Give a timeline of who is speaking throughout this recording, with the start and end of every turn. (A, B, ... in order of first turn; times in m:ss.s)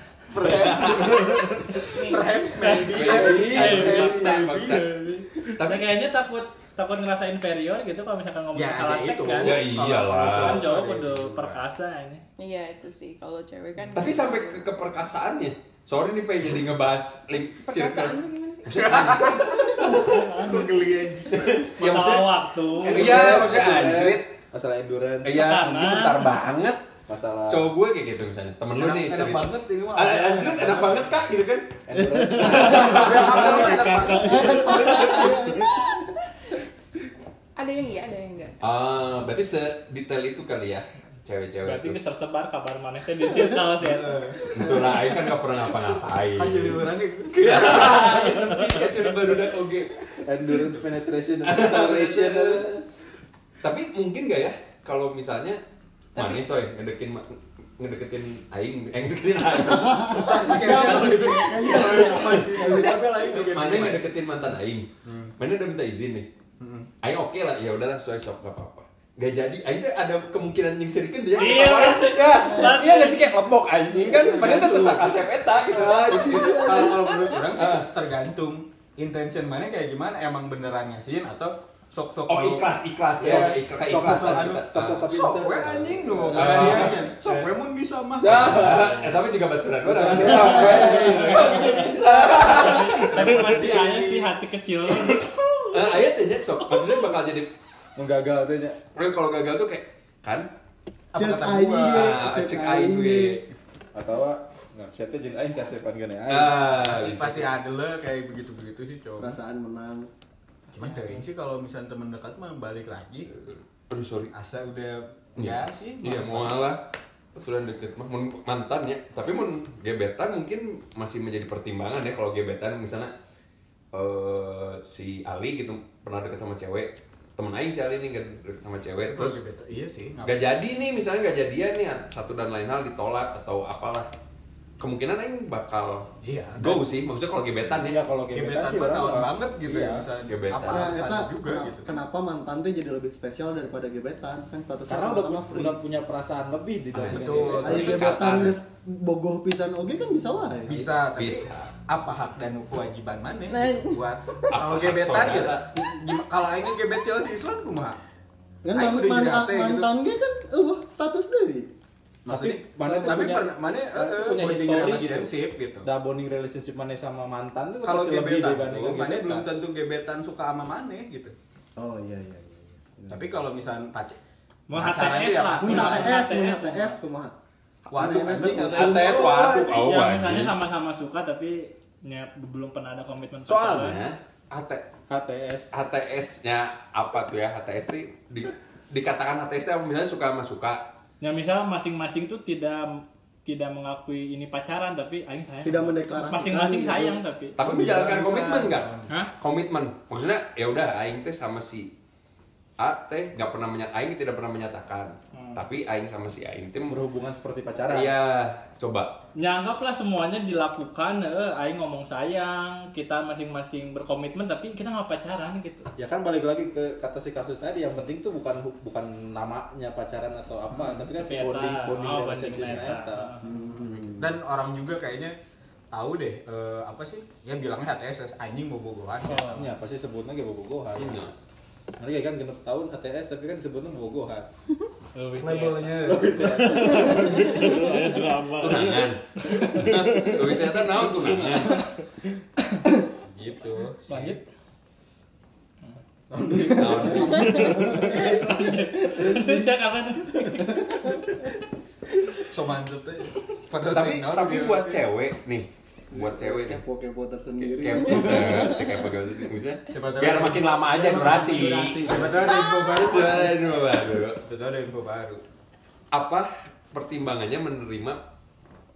0:00.3-0:04.8 A
0:00.4-0:01.8 B
0:01.9-0:02.2 C
0:02.5-0:12.2 D
0:02.7-0:05.9 B
0:08.5-0:11.6 A
0:09.4-0:10.7 B
0:12.4-0:14.7 C
0:13.9-0:19.8 B
0:17.6-0:19.4 C
0:18.8-0:21.8 A
0:19.6-0:20.8 E
0:21.8-0:23.3 D
0:21.8-0:24.3 B
0:22.8-0:25.4 F
0:23.0-0:23.7 A
0:25.2-0:26.8 B
0:25.3-0:26.3 D
0:27.1-0:27.7 F
0:27.5-0:31.7 B
0:28.8-0:31.1 A
0:30.0-0:30.5 F
0:31.9-0:33.9 F
0:32.0-0:35.0 G
0:32.4-0:32.7 E
0:32.4-0:35.3 A
0:32.6-0:33.4 B
0:34.3-0:36.1 E
0:37.6-0:38.6 C
0:38.6-0:42.0 B
0:41.6-0:44.3 D
0:43.8-0:44.8 A
0:44.5-0:50.6 B
0:46.3-0:48.5 A
0:50.2-0:52.8 F
0:51.4-0:52.6 B
0:53.6-0:55.6 B
0:56.1-1:06.3 B
0:56.2-0:56.4 C
0:59.7-1:02.9 E
1:00.1-1:04.0 A
1:05.0-1:05.3 A
1:06.6-1:06.9 A
1:07.0-1:17.9 B
1:11.3-1:13.4 D
1:14.2-1:15.1 A
1:14.2-1:14.8 F
1:15.7-1:22.7 A
1:15.7-1:16.6 F
1:22.3-1:25.0 B
1:23.2-1:27.0 F
1:23.2-1:29.1 A
1:26.3-1:27.5 B
1:28.2-1:29.1 F
1:28.3-1:33.1 B
1:29.8-1:32.0 F
1:30.1-1:34.3 A
1:32.4-1:36.0 D
1:33.2-1:33.6 G
1:34.9-1:37.5 B
1:38.0-1:38.8 F
1:38.9-1:40.5 B
1:41.1-1:42.1 A
1:41.1-1:43.4 E
1:41.8-1:43.4 B
1:43.9-1:46.7 F
1:46.3-1:47.6 B
1:46.6-1:49.4 A
1:49.2-1:50.1 E
1:50.7-1:53.3 A
1:50.8-1:51.2 D
1:53.9-1:54.3 B
1:54.3-1:56.7 A
1:55.4-2:03.1 B
2:03.9-2:09.4 B
2:09.0-2:10.4 A
2:10.2-2:14.1 B
2:14.8-2:18.0 B
2:16.2-2:16.8 A
2:17.7-2:20.1 F
2:18.3-2:21.9 A
2:20.3-2:21.0 B
2:20.7-2:25.8 E
2:24.9-2:28.0 F
2:26.9-2:28.6 B
2:27.1-2:28.0 A
2:27.6-2:30.9 E
2:30.7-2:38.0 A
2:31.1-2:31.6 B
2:33.5-2:34.6 C
2:34.5-2:35.7 B
2:38.6-2:41.7 E
2:38.7-2:39.9 A
2:42.2-2:45.9 A
2:42.3-2:45.3 F
2:45.8-2:49.5 F
2:47.8-2:51.3 A
2:51.8-2:53.2 E
2:53.1-2:54.2 A
2:54.7-2:57.0 D
2:54.7-2:56.2 A
2:55.6-2:57.3 E
2:57.9-2:59.8 A
2:57.9-2:59.2 E
2:58.5-3:00.6 B
2:59.7-3:04.0 D
3:03.4-3:04.8 B
3:05.1-3:05.7 F
3:05.7-3:10.8 B
3:11.2-3:17.6 D
3:15.6-3:17.2 E
3:17.6-3:21.9 B
3:17.6-3:18.8 F
3:17.8-3:19.0 A
3:22.8-3:27.0 B
3:25.3-3:25.6 D
3:26.9-3:28.2 F
3:27.9-3:29.2 B
3:29.3-3:35.9 D
3:36.0-3:43.3 F
3:40.7-3:43.7 D
3:43.4-3:44.3 E
3:44.2-3:45.3 A
3:45.9-3:49.6 A
3:49.2-3:49.7 D
3:49.4-3:51.3 F
3:51.0-3:51.3 B
3:52.0-3:54.5 F
3:55.1-3:56.2 D
3:55.4-3:57.3 A
3:55.9-3:57.7 F
3:56.6-3:59.1 G
3:57.0-3:57.7 C
3:58.6-4:01.8 B
3:59.6-3:59.8 D
3:59.8-4:00.4 G
4:03.2-4:04.4 A
4:04.1-4:04.4 D
4:06.3-4:07.9 F
4:06.5-4:07.3 A
4:06.7-4:07.7 B
4:07.2-4:09.7 E
4:07.7-4:11.2 D
4:10.6-4:11.2 E
4:12.5-4:15.0 A
4:13.9-4:16.8 B
4:16.1-4:18.9 E
4:17.6-4:22.2 B
4:19.9-4:20.8 A
4:20.9-4:22.4 E
4:22.0-4:25.4 A
4:22.5-4:23.0 C
4:22.8-4:24.4 B
4:26.1-4:28.2 B